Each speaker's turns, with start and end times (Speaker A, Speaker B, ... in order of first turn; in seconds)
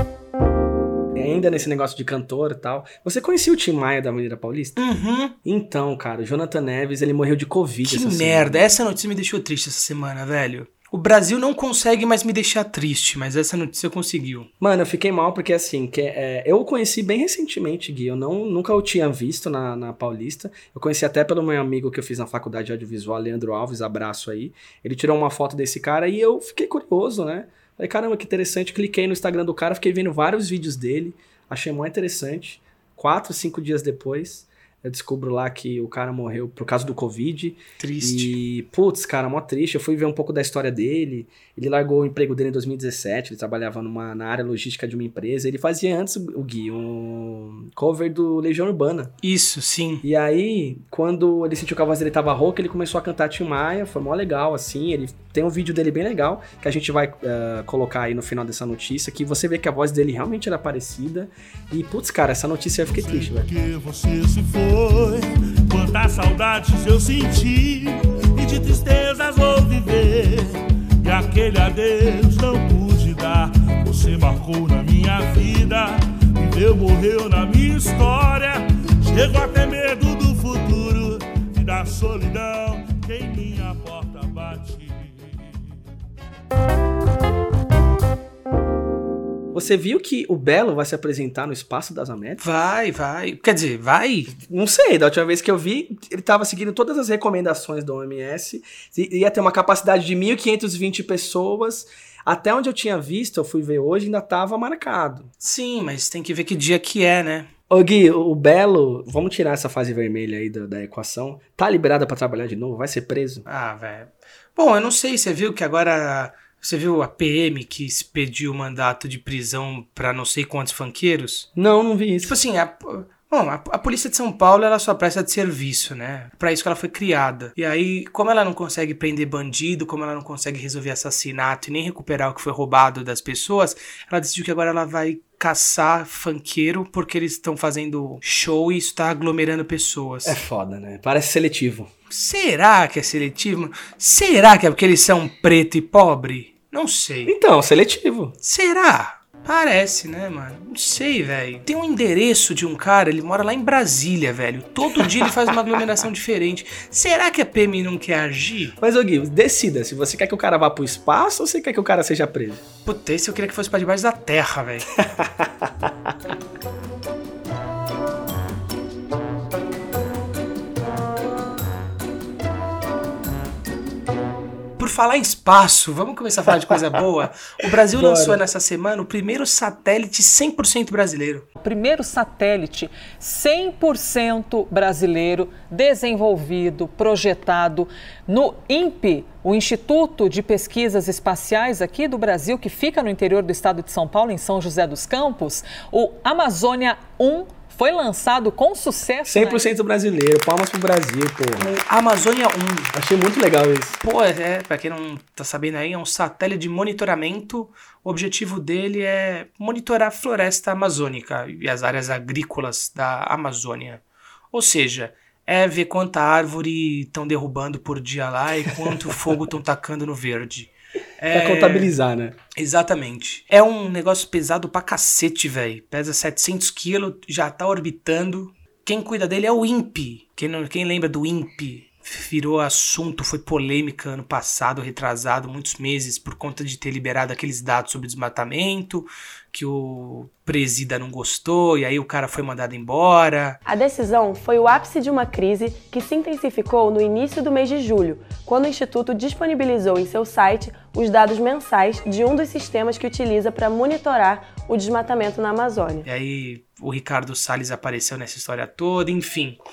Speaker A: 1.1-4.8, 5.4-8.8, 14.6-49.1, 50.0-63.5, 89.5-92.4, 94.3-105.3, 107.7-113.5, 121.5-122.4, 140.2-141.9, 147.2-148.3, 154.9-155.3, 158.8-162.6, 164.9-165.9, 177.9-178.4, 199.2-201.7, 202.9-204.0, 221.3-222.4
Speaker B: 4.8-5.3, 7.9-14.5, 37.8-38.4, 49.2-50.0, 92.4-94.3, 105.4-107.5, 113.5-121.5, 122.2-140.4, 142.1-147.3, 148.4-158.8, 162.8-164.9, 174.8-181.5, 201.6-202.9, 204.0-222.0, 222.6-243.6, 256.1-259.6
Speaker C: 62.8-85.6
Speaker D: 181.6-199.7
Speaker E: 243.7-256.1